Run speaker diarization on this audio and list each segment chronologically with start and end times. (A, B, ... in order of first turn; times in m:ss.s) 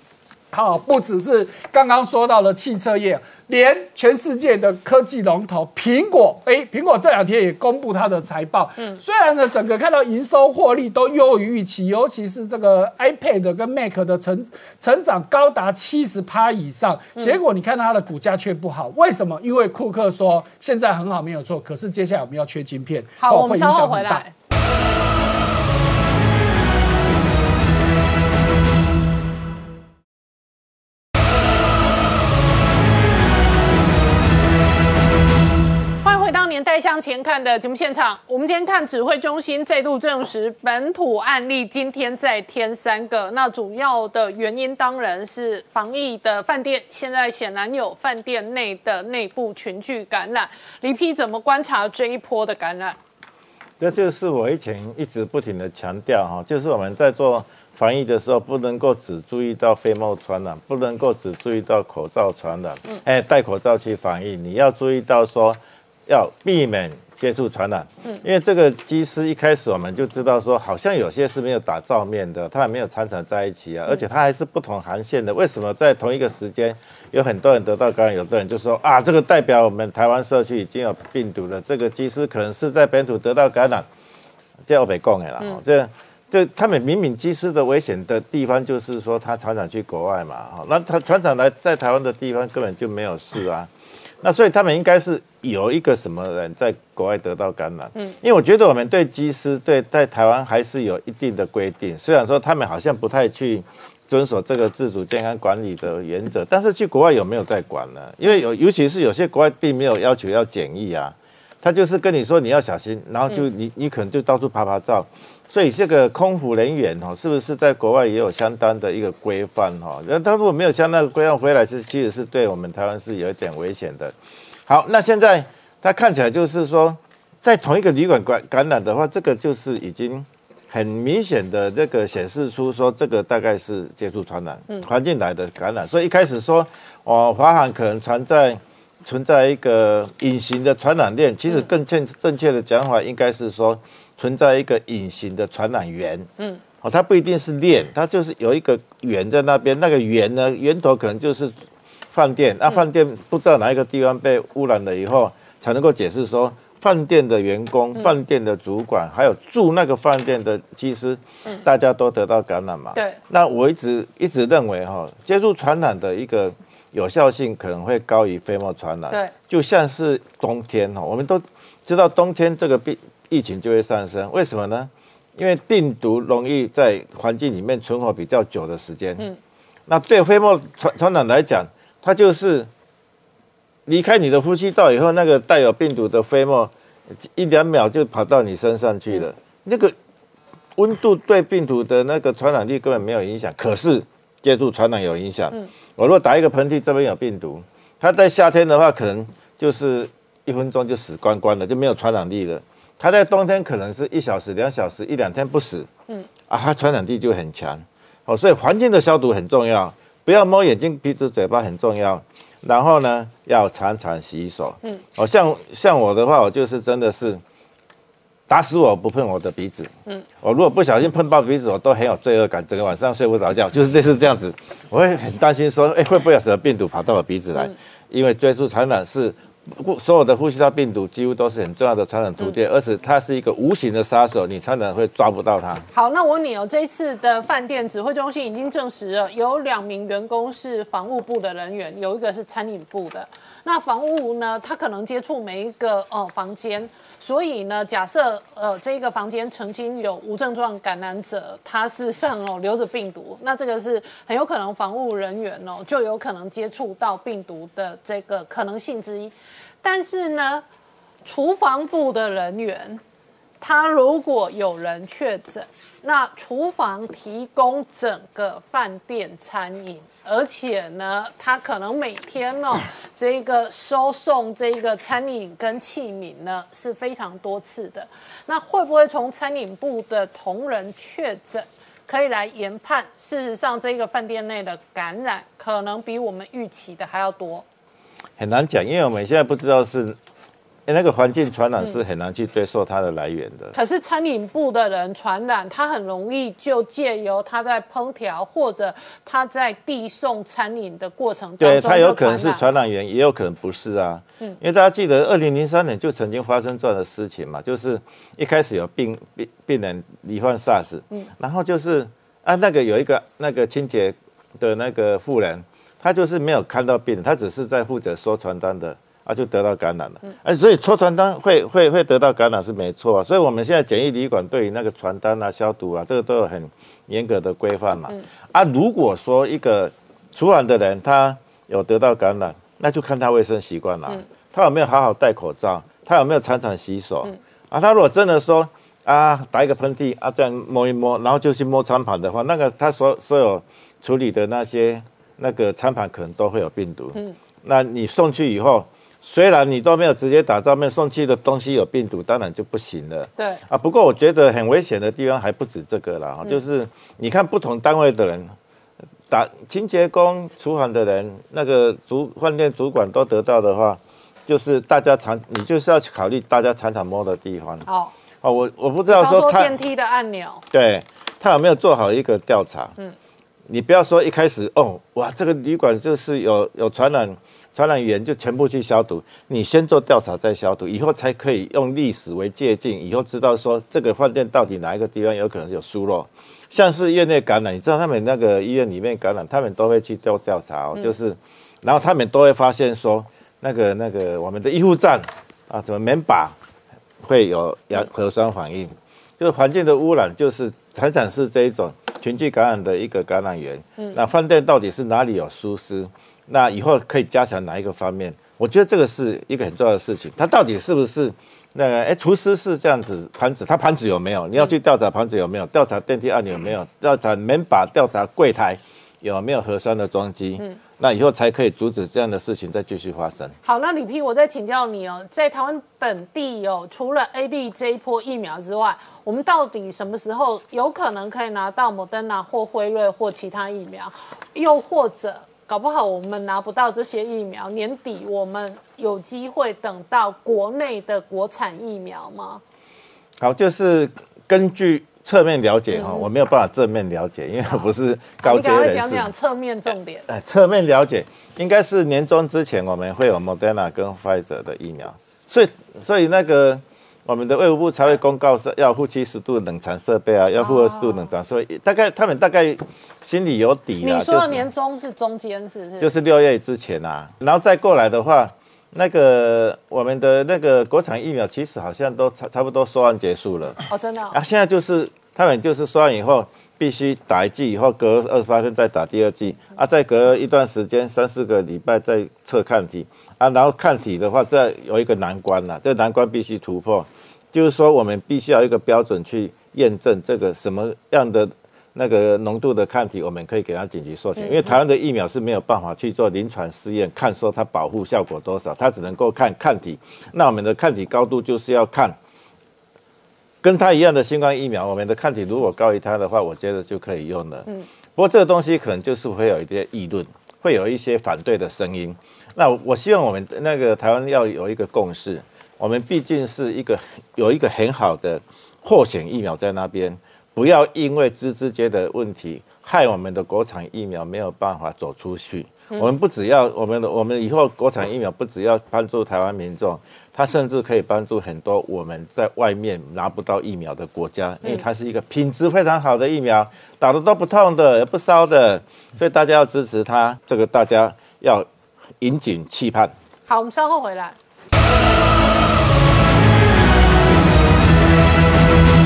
0:00.5-0:24.2 A
0:23.2-0:24.3 B
0:36.0-0:53.0 B
0:53.8-1:23.9 C
1:24.7-1:33.7 C
1:34.2-2:04.2 C
2:04.7-2:26.3 C
2:26.8-2:31.6 C
2:32.1-2:59.3 C
2:59.9-3:02.7 C
3:03.9-3:06.7 C
3:07.2-3:09.9 C
3:10.8-3:25.9 C
3:26.5-3:37.4 C
3:38.5-3:55.8 C
3:55.9-4:20.6 B
4:21.2-4:23.0 B
4:23.6-4:47.6 B
4:48.4-4:50.2 C
4:50.9-4:53.8 C
4:53.7-5:02.7 B
5:01.6-5:58.5 C
5:53.4-5:53.6 B
5:59.3-6:07.9 C
6:07.9-6:08.1 B
6:08.4-6:09.8 C
6:09.1-6:10.6 B
6:10.7-6:13.0 C
6:13.7-6:36.6 C
6:37.2-7:03.6 C
7:03.6-7:22.6 B
7:23.4-7:29.3 C
7:25.9-7:26.3 B
7:28.4-7:30.3 B
7:30.3-7:44.7 C
7:40.6-7:41.3 B
7:44.0-7:46.1 B
7:46.0-8:22.2 C
7:53.9-7:54.4 B
8:14.4-8:14.7 B
8:23.6-9:01.7 C
9:02.2-9:03.1 C
9:03.5-9:04.4 B